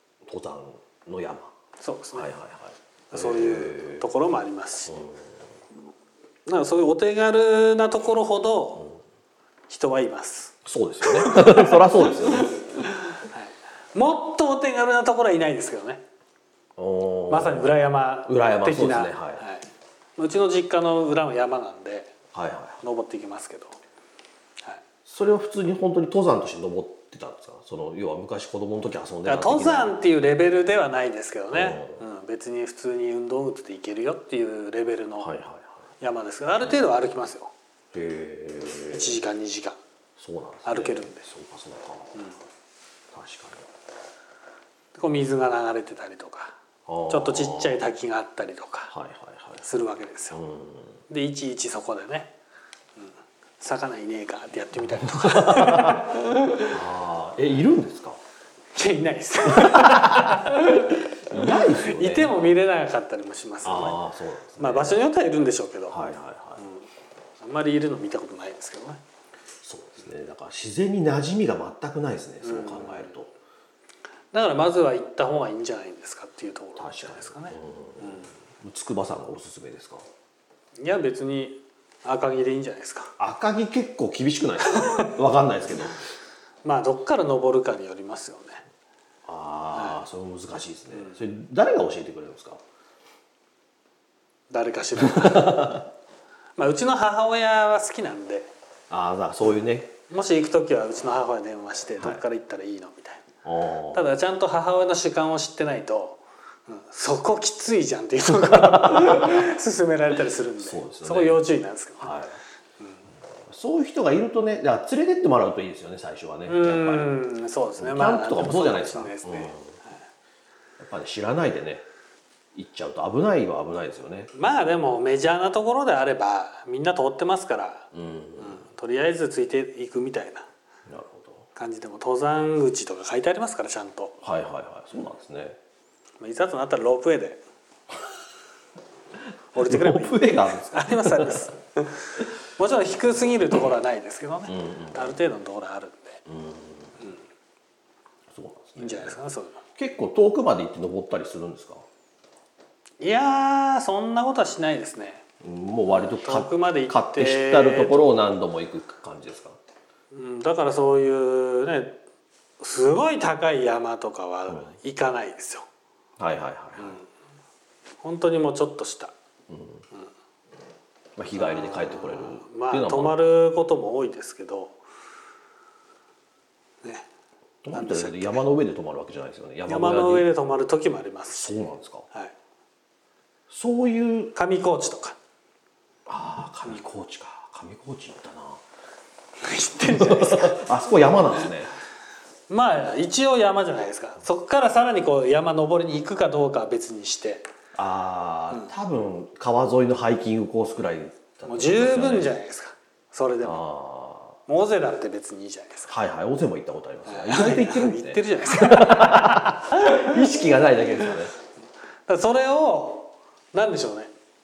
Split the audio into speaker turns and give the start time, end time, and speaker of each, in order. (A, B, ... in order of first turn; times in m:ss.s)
0:00.2-0:01.5 A
0:01.8-0:02.3 B
0:02.1-0:04.1 A
0:03.1-0:05.0 B
0:04.9-0:05.4 A
0:06.5-0:08.9 B
0:09.7-0:16.0 B
0:10.6-0:12.5 A
0:16.8-0:17.7 A
0:17.3-0:22.1 B
0:18.2-0:19.4 A
0:22.3-0:22.8 A
0:22.8-0:23.8 B
0:25.1-0:29.9 A
0:29.2-0:35.3 B
0:31.5-0:32.0 A
0:35.2-0:35.8 A
0:36.0-0:37.5 B
0:37.9-0:39.2 A
0:38.9-0:39.8 B
0:40.2-0:42.1 A
0:40.6-0:41.2 B
0:43.1-0:43.7 A
0:45.0-0:46.6 B
0:46.9-0:47.8 A
0:47.1-0:48.9 B
0:48.9-0:49.6 A
0:49.6-0:50.4 B
0:50.3-0:51.0 A
0:51.1-0:52.3 B
0:53.0-0:56.7 B
0:54.9-0:56.1 A
0:56.7-0:58.2 A
0:58.8-1:04.0 B
0:59.5-1:00.6 A
1:01.3-1:02.4 A
1:03.6-1:05.0 A
1:04.6-1:06.0 B
1:05.9-1:06.6 A
1:06.6-1:06.9 B
1:07.4-1:09.0 B
1:09.6-1:13.3 A
1:12.4-1:13.1 B
1:14.3-1:18.3 B
1:16.8-1:20.1 A
1:20.8-1:23.1 B
1:23.2-1:26.0 A
1:24.6-1:25.1 B
1:26.6-1:28.6 B
1:29.2-1:32.6 A
1:29.7-1:30.0 B
1:34.5-1:35.8 B
1:35.0-1:35.9 A
1:36.6-1:38.5 B
1:38.9-1:39.9 A
1:40.1-1:43.3 B
1:43.4-1:44.1 A
1:43.9-1:52.1 B
1:48.3-1:49.5 A
1:50.6-1:51.4 A
1:52.0-1:52.4 A
1:53.5-1:57.2 A
1:56.5-1:59.6 B
1:57.8-1:59.8 A
2:00.8-2:01.8 A
2:02.6-2:04.3 A
2:04.3-2:10.5 B
2:07.9-2:08.6 A
2:10.9-2:11.4 A
2:11.6-2:14.2 B
2:14.2-2:15.6 A
2:16.2-2:17.4 B
2:19.5-2:26.2 B
2:19.6-2:21.5 A
2:24.5-2:25.2 A
2:26.3-2:27.0 A
2:28.3-2:29.2 A
2:28.8-2:29.6 B
2:29.8-2:31.8 A
2:33.0-2:35.2 B
2:35.4-2:39.6 A
2:35.9-2:38.0 B
2:40.1-2:42.0 B
2:42.6-2:45.7 B
2:46.2-2:47.0 A
2:46.8-2:47.1 B
2:48.0-2:49.1 B
2:49.5-2:49.8 A
2:51.2-2:53.1 A
2:51.4-2:54.8 B
2:57.6-3:00.3 A
2:57.7-2:58.4 B
2:59.7-3:02.3 B
3:01.3-3:02.1 A
3:03.5-3:04.3 A
3:04.4-3:05.2 B
3:06.1-3:08.6 A
3:09.4-3:10.7 B
3:09.9-3:11.7 A
3:12.5-3:17.5 B
3:17.8-3:22.3 A
3:21.5-3:23.6 B
3:23.4-3:24.4 A
3:24.5-3:25.9 B
3:25.9-3:31.3 A
3:27.1-3:30.2 B
3:32.1-3:34.1 B